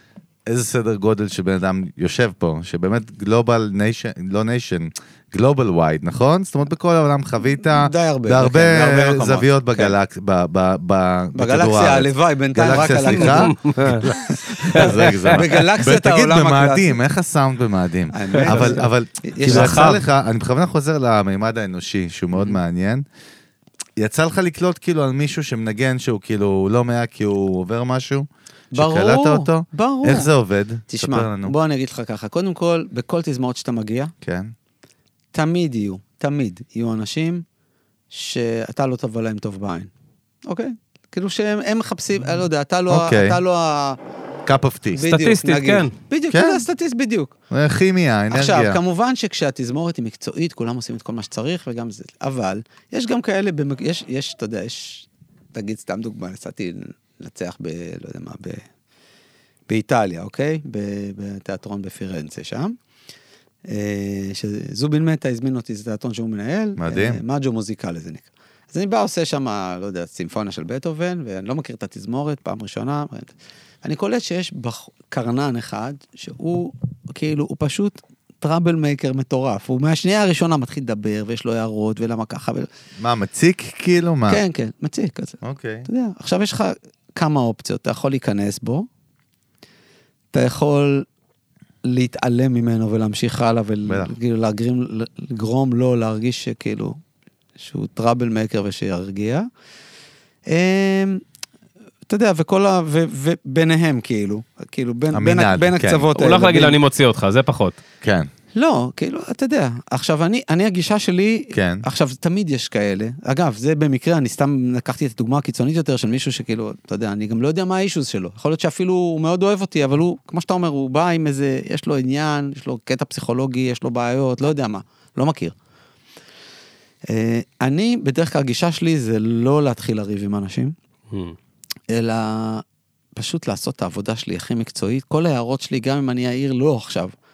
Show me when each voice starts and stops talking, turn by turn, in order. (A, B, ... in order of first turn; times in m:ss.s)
0:00.5-0:23.0 A
0:07.7-0:10.0 B
0:11.3-0:17.0 B
0:13.0-0:14.0 C
0:14.6-0:15.4 C
0:18.1-0:20.0 B
0:18.3-0:18.8 C
0:19.4-0:20.0 C
0:24.0-0:31.5 A
0:28.7-0:30.3 B
0:30.9-0:34.1 B
0:34.2-0:34.5 A
0:35.3-0:37.4 B
0:38.1-0:39.9 B
0:40.5-0:44.0 B
0:42.9-0:43.4 A
0:44.4-0:45.0 A
0:44.9-0:47.3 B
0:45.0-0:45.9 C
0:46.3-0:46.6 A
0:47.5-0:48.8 A
0:48.3-0:58.6 B
0:59.7-1:02.8 B
1:03.7-1:22.7 B
1:06.8-1:07.2 A
1:23.0-1:24.4 A
1:24.3-1:28.9 B
1:25.4-1:25.9 A
1:30.3-1:31.0 B
1:31.8-1:37.0 B
1:33.9-1:34.1 A
1:37.6-1:39.5 B
1:40.5-1:41.2 B
1:42.1-1:46.8 B
1:45.1-1:46.1 A
1:46.1-1:47.8 C
1:48.0-1:48.3 A
1:48.5-2:05.5 B
1:51.5-1:51.8 A
2:07.1-2:10.7 B
2:11.1-2:11.4 C
2:11.9-2:12.6 B
2:13.2-2:17.1 B